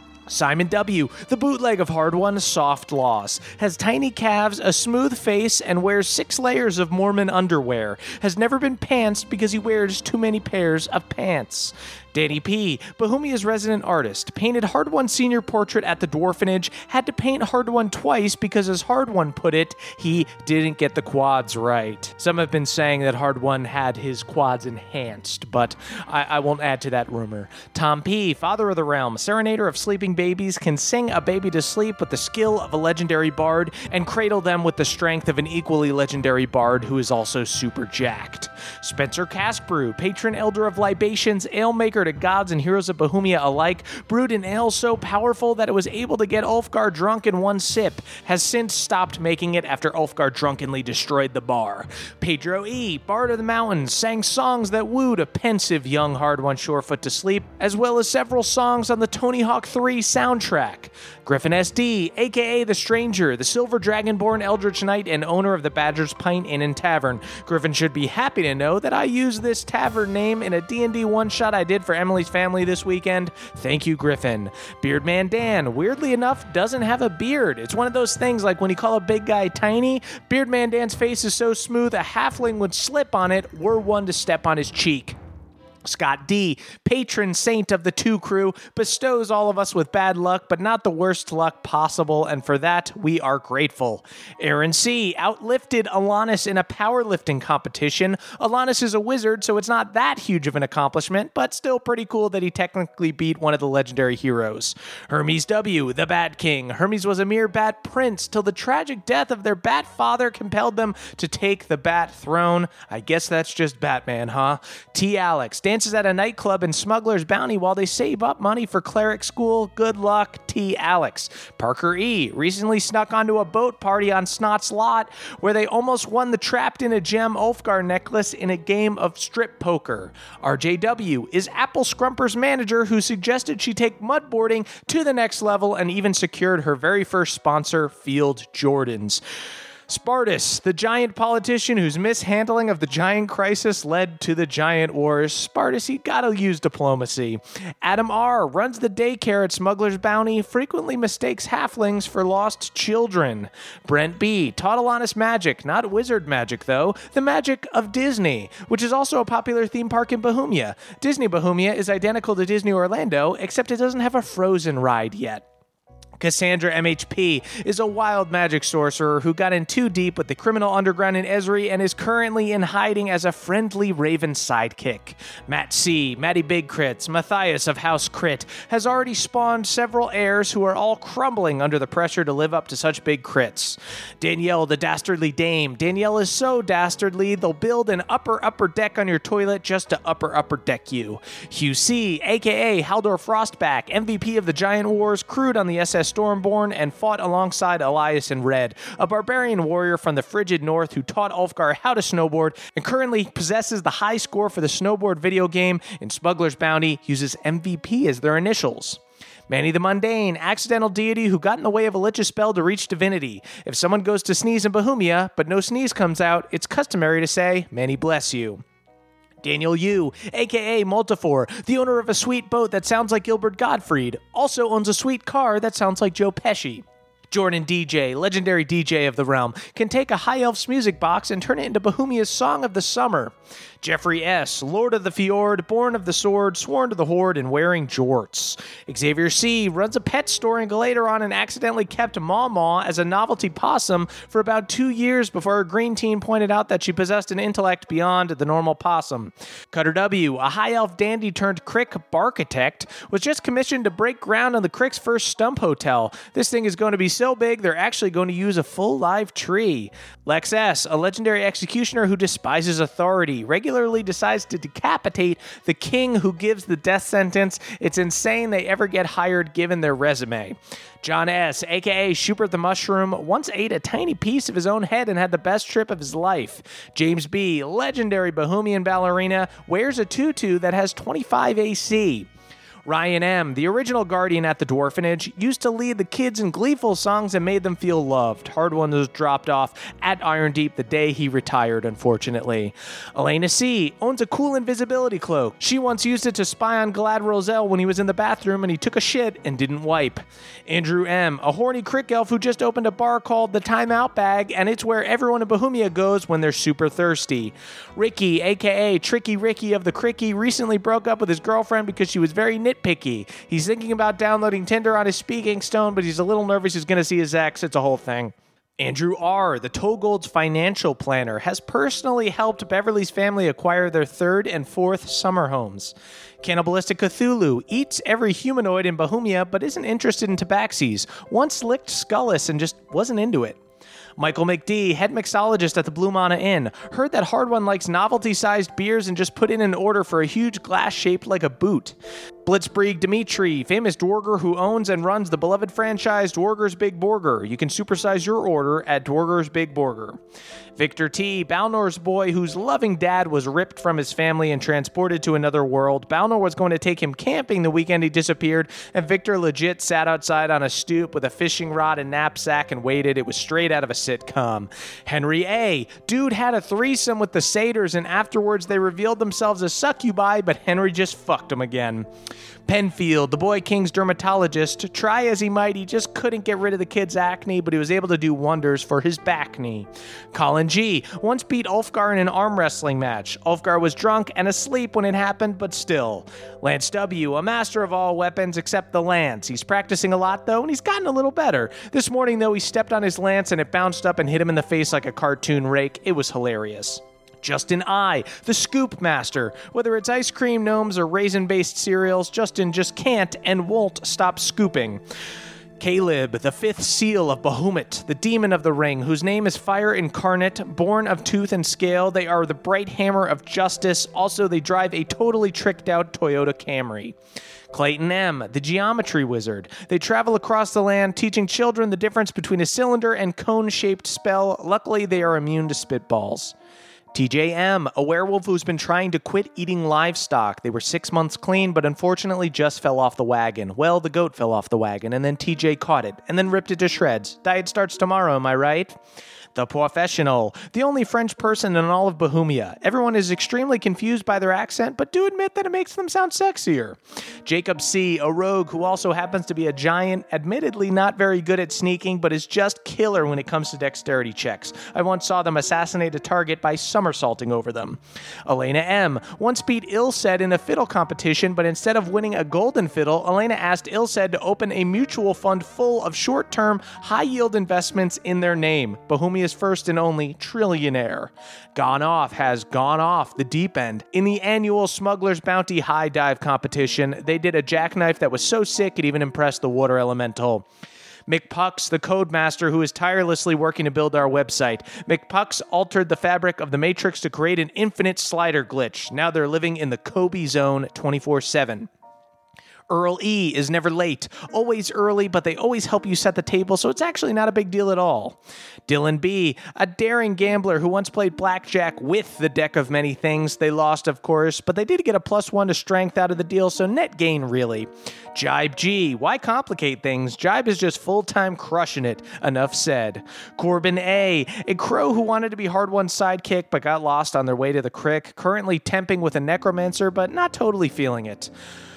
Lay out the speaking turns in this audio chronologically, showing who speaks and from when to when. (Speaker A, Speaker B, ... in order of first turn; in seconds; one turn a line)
Speaker A: 0.3-85.2
Speaker A: 85.8-139.2
Speaker A: 139.9-165.4
Speaker A: 166.2-218.6
Speaker A: 219.4-282.3
Speaker A: 282.9-333.6
Speaker A: 334.2-350.2
Speaker A: 350.8-372.1
Speaker A: 372.7-405.0
Speaker A: 405.8-417.2
Speaker A: 417.7-426.5
Speaker A: 427.1-439.0
Speaker A: 439.6-480.7
Speaker A: 481.3-491.9
Speaker A: 492.9-521.5